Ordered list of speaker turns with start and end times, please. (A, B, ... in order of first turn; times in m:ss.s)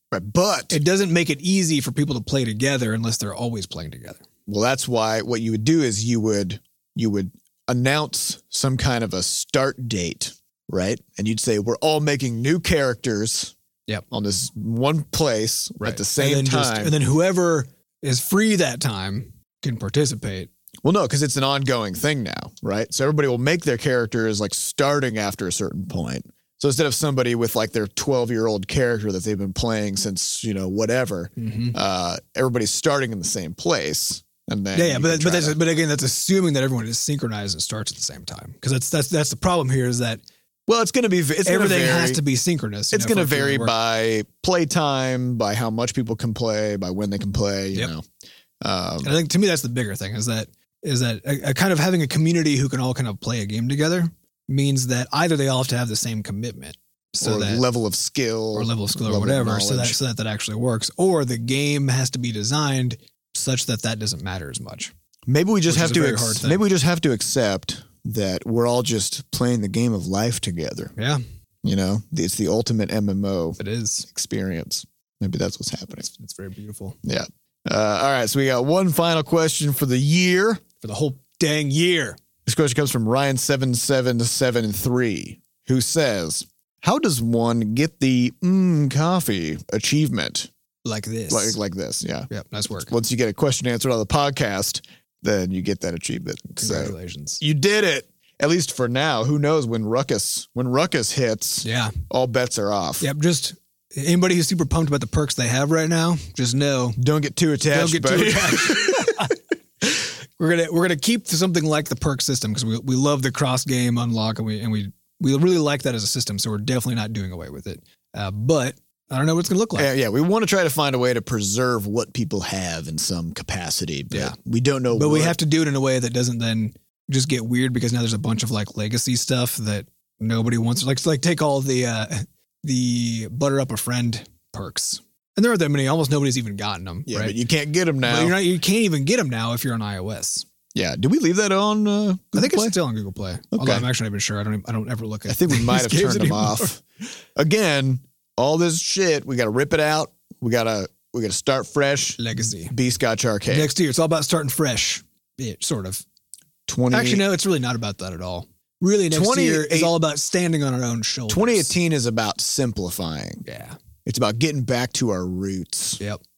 0:00.1-0:00.8 A
0:00.7-0:04.2 B
0:04.5-0:13.5 A
0:14.1-0:16.9 A
0:15.8-0:20.5 B
0:20.8-0:35.6 A
0:31.4-0:31.8 B
0:34.7-0:40.2 B
0:40.7-0:42.2 A
0:41.4-0:43.7 B
0:42.9-0:48.0 A
0:48.6-0:49.1 A
0:49.0-0:57.6 B
0:57.2-1:00.0 A
0:58.5-1:04.9 B
1:05.3-1:10.9 A
1:05.7-1:06.6 B
1:11.0-1:11.2 B
1:11.6-1:16.0 A
1:13.6-1:14.0 B
1:16.0-1:17.0 B
1:17.0-1:20.6 A
1:20.8-1:22.2 B
1:22.4-1:30.5 A
1:30.8-1:31.6 B
1:31.3-1:32.3 A
1:32.3-1:32.9 B
1:32.9-1:43.0 A
1:36.5-1:37.4 B
1:41.6-1:42.0 B
1:43.0-1:47.0 B
1:47.0-1:49.3 A
1:47.7-1:49.4 B
1:49.9-1:59.9 B
1:59.8-2:05.4 A
2:04.9-2:17.4 B
2:17.1-2:18.4 A
2:18.0-2:20.4 B
2:20.7-2:22.7 A
2:22.3-2:26.8 B
2:23.5-2:23.8 A
2:25.3-2:26.8 A
2:27.4-2:33.7 A
2:32.2-2:32.7 B
2:33.5-2:36.0 B
2:36.7-2:37.2 A
2:36.9-2:41.7 B
2:39.1-2:39.9 A
2:41.3-2:43.4 A
2:43.4-2:43.8 B
2:44.0-2:46.0 A